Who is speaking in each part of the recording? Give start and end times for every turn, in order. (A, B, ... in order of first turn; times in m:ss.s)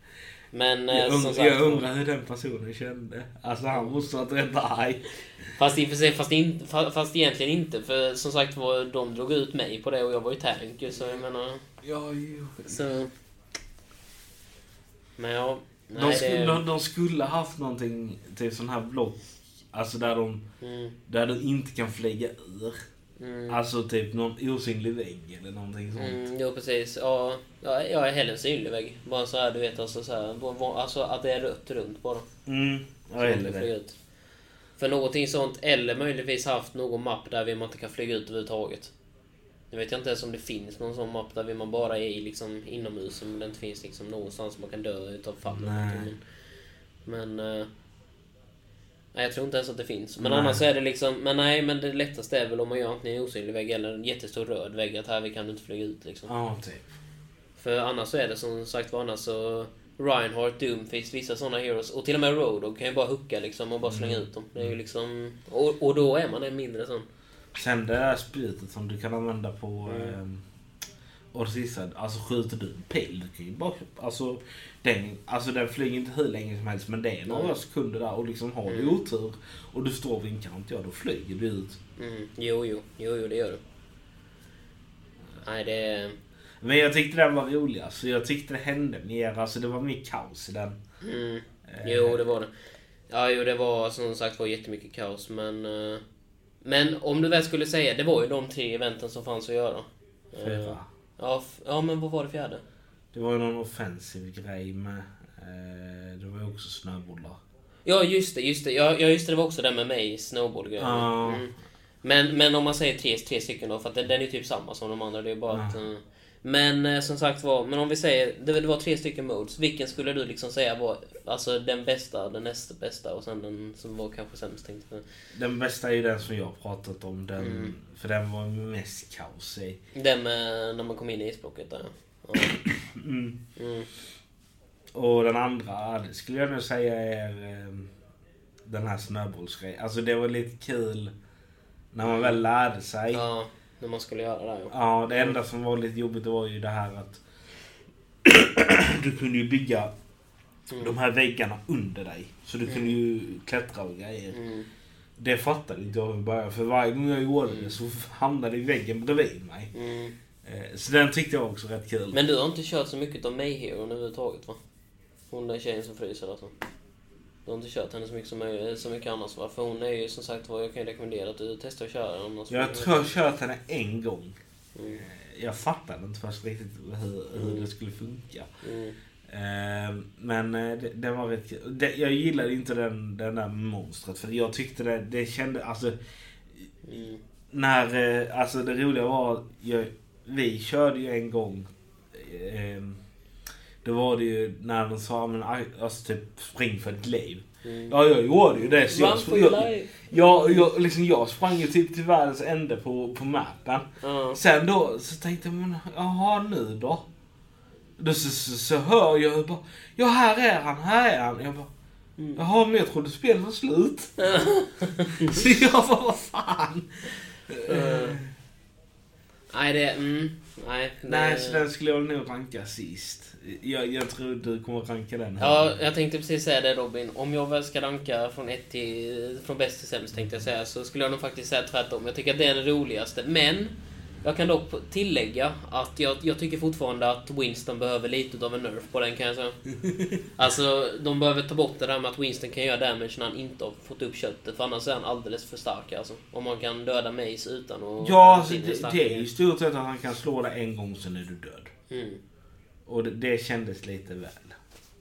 0:00.5-0:01.8 A
0:00.9-0:05.0 B
0:05.6-0:11.6 A
0:11.8-0:12.8 B
0:12.6-0:13.1 A
0:15.2-0:16.6 A
0:15.9-0:19.2 B
0:19.7-0:20.4 B
0:20.6-0:20.9 A
0:21.1-0:22.8 B
0:23.2-0:23.6 A
0:23.5-0:26.2 B
0:26.0-0:32.3 A
0:32.4-0:33.7 B
0:33.2-0:33.9 A
0:34.8-0:38.9 A
0:39.7-0:46.2 A
0:45.5-0:46.1 B
0:47.0-0:47.7 A
0:49.1-0:56.3 A
0:50.2-0:50.6 B
0:56.3-0:56.9 B
0:57.6-1:07.1 A
1:03.8-1:04.7 B
1:07.5-1:10.4 B
1:09.8-1:10.2 A
1:11.3-1:21.8 B
1:17.3-1:17.5 A
1:18.7-1:19.0 A
1:22.0-1:23.6 A
1:25.4-1:26.2 A
1:26.6-1:30.8 B
1:31.0-1:32.5 A
1:31.7-1:32.2 B
1:33.1-1:36.0 A
1:36.6-1:42.6 A
1:40.4-1:40.9 B
1:43.1-1:47.4 B
1:47.8-2:05.0 A
1:50.8-1:51.4 B
2:05.3-2:09.8 B
2:07.4-2:07.7 A
2:09.9-2:12.6 A
2:12.5-2:13.4 B
2:13.6-2:13.9 A
2:14.9-2:17.9 B
2:18.6-2:21.1 B
2:21.9-2:23.2 B
2:22.0-2:22.4 A
2:23.1-2:25.4 A
2:24.7-2:27.2 B
2:28.2-2:29.9 B
2:30.7-2:31.0 A
2:30.8-2:34.4 B
2:32.6-2:33.0 A
2:34.3-2:34.7 A
2:35.2-2:39.7 B
2:37.4-2:37.7 A
2:39.7-2:40.1 A
2:40.4-2:42.2 B
2:42.1-2:44.6 A
2:45.3-2:46.5 A
2:47.4-2:53.1 A
2:52.5-2:54.4 B
2:54.7-2:55.0 A
2:54.9-2:58.5 B
2:57.3-2:57.7 A
2:58.6-2:59.0 A
2:59.3-3:06.0 B
3:06.8-3:07.2 A
3:07.5-3:13.0 B
3:13.8-3:27.0 B
3:17.6-3:17.9 A
3:18.6-3:20.7 A
3:24.0-3:24.4 A
3:28.0-3:31.7 B
3:32.4-3:34.2 B
3:34.2-3:35.4 A
3:35.1-3:36.9 B
3:37.5-3:38.3 B
3:37.7-3:38.2 A
3:39.5-3:41.6 A
3:41.0-3:45.7 B
3:45.4-3:59.6 A
4:00.4-4:09.3 A
4:08.0-4:11.7 B
4:11.9-4:12.2 A
4:12.9-4:14.6 B